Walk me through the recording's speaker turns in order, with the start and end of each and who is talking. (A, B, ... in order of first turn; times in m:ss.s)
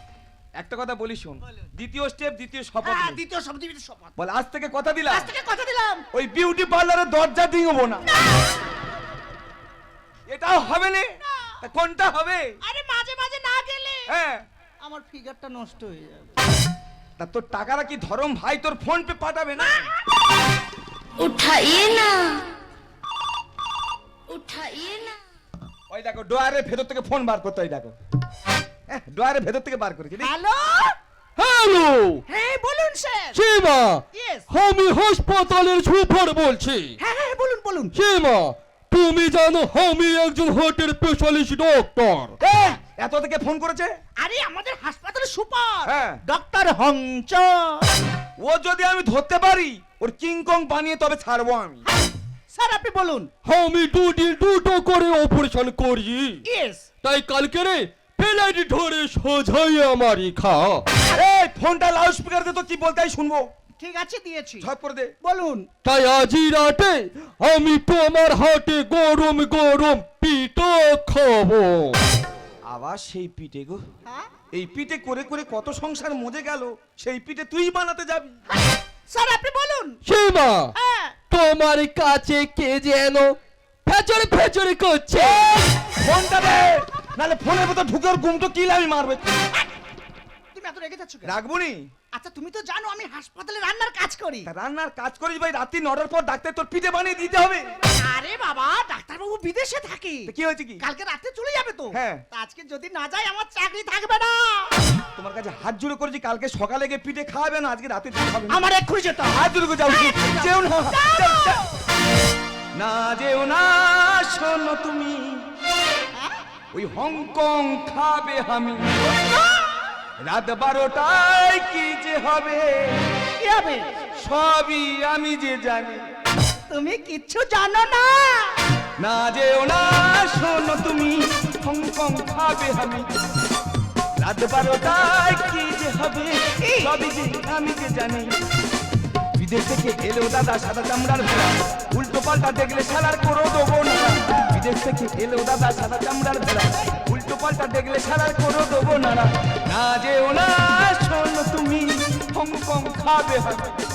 0:00.6-0:03.2 A
0:02.8-0:04.1 B
0:04.2-0:05.3 A
0:05.1-0:06.0 B
0:06.1-0:08.0 A
0:08.1-0:08.5 B
0:10.3-0:12.5 A
0:12.6-0:14.1 B
0:14.1-0:14.4 A
0:14.8-0:16.3 B
0:17.2-0:19.8 A
0:21.2-0:22.4 C
0:24.3-0:25.2 C
0:25.9-0:28.0 A
0:28.9-0:30.3 A
0:30.2-0:31.0 B
0:31.4-0:32.2 D
0:32.3-0:33.4 B
0:33.3-0:37.0 D
0:34.1-0:34.5 B
0:37.0-0:37.9 B
0:37.9-0:42.4 D
0:42.4-0:42.7 B
0:42.7-0:43.9 A
0:44.2-0:47.9 B
0:45.8-0:46.2 A
0:48.4-0:51.8 A
0:52.5-0:53.3 B
0:53.4-0:56.4 D
0:56.4-0:56.8 B
0:57.0-1:00.8 D
1:01.1-1:03.5 A
1:03.8-1:04.7 B
1:04.6-1:05.1 A
1:05.2-1:05.7 B
1:05.8-1:12.0 D
1:12.7-1:13.8 A
1:14.0-1:14.3 B
1:14.5-1:18.3 A
1:19.1-1:20.0 B
1:20.0-1:20.7 D
1:20.7-1:21.1 B
1:21.3-1:23.3 D
1:23.8-1:25.6 D
1:25.2-1:29.4 A
1:30.5-1:31.3 B
1:31.2-1:31.9 A
1:32.1-1:34.5 B
1:34.4-1:37.7 A
1:38.0-1:44.8 B
1:40.3-1:40.8 A
1:41.9-1:42.2 A
1:45.1-1:48.6 A
1:48.5-1:51.7 B
1:49.3-1:51.6 A
1:52.7-1:55.4 A
1:56.1-1:56.4 B
1:56.7-1:58.9 A
1:59.0-1:59.8 B
2:00.2-2:03.1 A
2:03.4-2:03.9 B
2:04.2-2:06.0 A
2:06.7-2:08.6 B
2:09.0-2:13.0 A
2:14.2-2:18.3 A
2:16.6-2:17.0 B
2:19.4-2:33.7 A